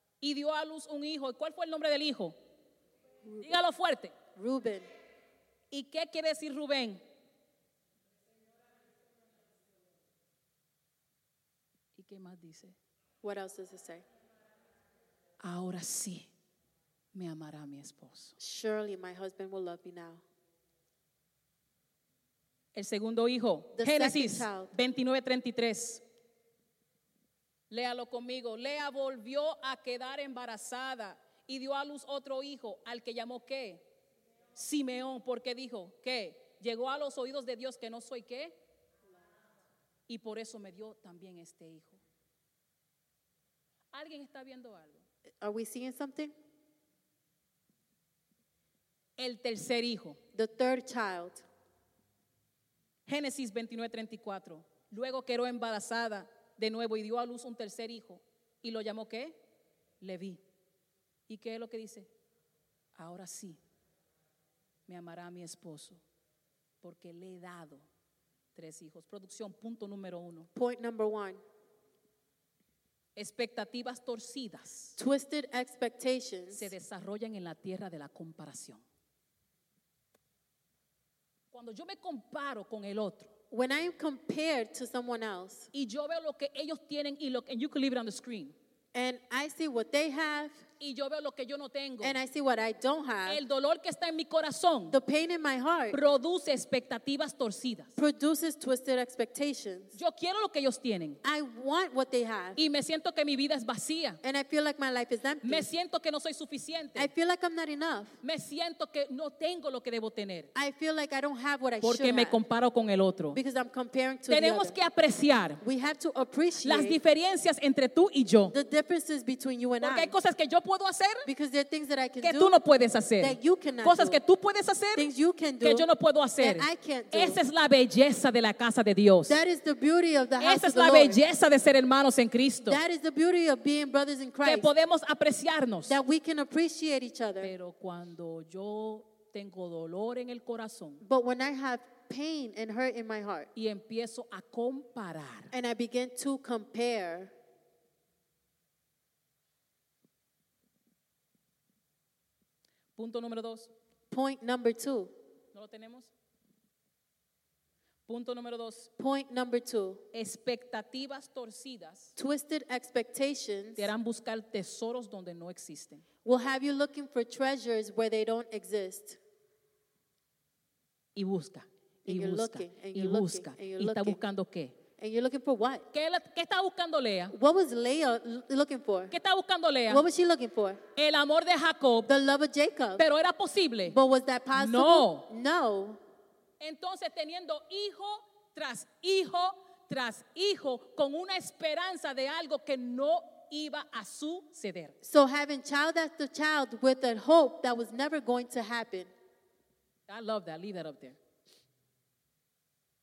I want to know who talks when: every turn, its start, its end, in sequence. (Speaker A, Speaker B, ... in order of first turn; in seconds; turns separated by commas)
Speaker A: 0.2-2.4, Speaker A: 3.4-4.2, Speaker B: 4.3-4.9, Speaker A: 5.7-7.0, Speaker A: 12.0-12.8, Speaker B: 13.2-14.1, Speaker A: 15.4-16.3, Speaker A: 17.1-18.4, Speaker B: 18.4-20.2, Speaker A: 22.7-26.0, Speaker B: 23.8-24.7, Speaker A: 27.7-33.9, Speaker A: 34.6-38.6, Speaker A: 40.1-42.0, Speaker A: 43.9-45.0, Speaker B: 45.4-46.3, Speaker A: 49.2-50.2, Speaker B: 50.3-51.5, Speaker A: 53.1-59.4, Speaker A: 60.0-60.4, Speaker A: 61.3-62.1, Speaker A: 63.0-63.6, Speaker A: 64.9-66.0, Speaker A: 66.8-67.9, Speaker A: 68.5-70.5, Speaker B: 70.5-71.4, Speaker A: 73.2-75.0, Speaker B: 75.0-76.7, Speaker A: 76.5-78.8, Speaker A: 81.5-83.3, Speaker B: 83.5-85.7, Speaker A: 85.7-88.5, Speaker B: 88.9-90.6, Speaker A: 90.8-92.2, Speaker B: 92.0-93.4, Speaker A: 93.3-95.0, Speaker B: 94.9-96.0, Speaker A: 95.9-97.9, Speaker B: 98.0-100.0, Speaker A: 99.9-101.2, Speaker B: 101.2-102.6, Speaker A: 102.6-104.2, Speaker B: 104.2-105.7, Speaker A: 105.4-107.1, Speaker B: 107.0-108.2, Speaker A: 108.2-110.5, Speaker B: 110.5-112.4, Speaker A: 111.8-113.4, Speaker B: 113.3-114.8, Speaker A: 114.3-115.6, Speaker B: 115.6-117.0, Speaker A: 116.6-118.5, Speaker B: 118.5-120.2, Speaker A: 119.8-121.3, Speaker B: 121.2-122.5, Speaker A: 122.2-125.1, Speaker B: 123.2-124.2, Speaker B: 125.0-125.9, Speaker A: 125.6-129.4, Speaker B: 126.4-127.4, Speaker B: 129.3-131.2, Speaker A: 130.4-132.8, Speaker B: 132.7-134.7, Speaker A: 134.4-136.0, Speaker B: 135.9-137.5, Speaker A: 137.4-141.0, Speaker B: 141.0-143.5, Speaker A: 143.6-145.5, Speaker B: 145.5-147.3, Speaker A: 153.0-153.7, Speaker B: 154.1-155.1, Speaker A: 155.5-156.1, Speaker A: 158.1-158.9, Speaker B: 159.0-160.0, Speaker A: 160.1-162.1, Speaker B: 162.2-163.9, Speaker A: 163.8-166.0, Speaker B: 166.2-169.2, Speaker A: 171.2-174.8, Speaker B: 172.1-174.2, Speaker B: 175.0-175.9, Speaker A: 175.9-177.3, Speaker B: 177.3-179.1, Speaker A: 179.1-180.0, Speaker B: 179.9-180.8, Speaker A: 181.0-182.1, Speaker B: 182.1-183.1, Speaker A: 183.0-184.0, Speaker B: 183.9-186.0, Speaker A: 184.5-185.3, Speaker A: 186.6-194.9, Speaker B: 195.0-199.1, Speaker A: 200.1-201.2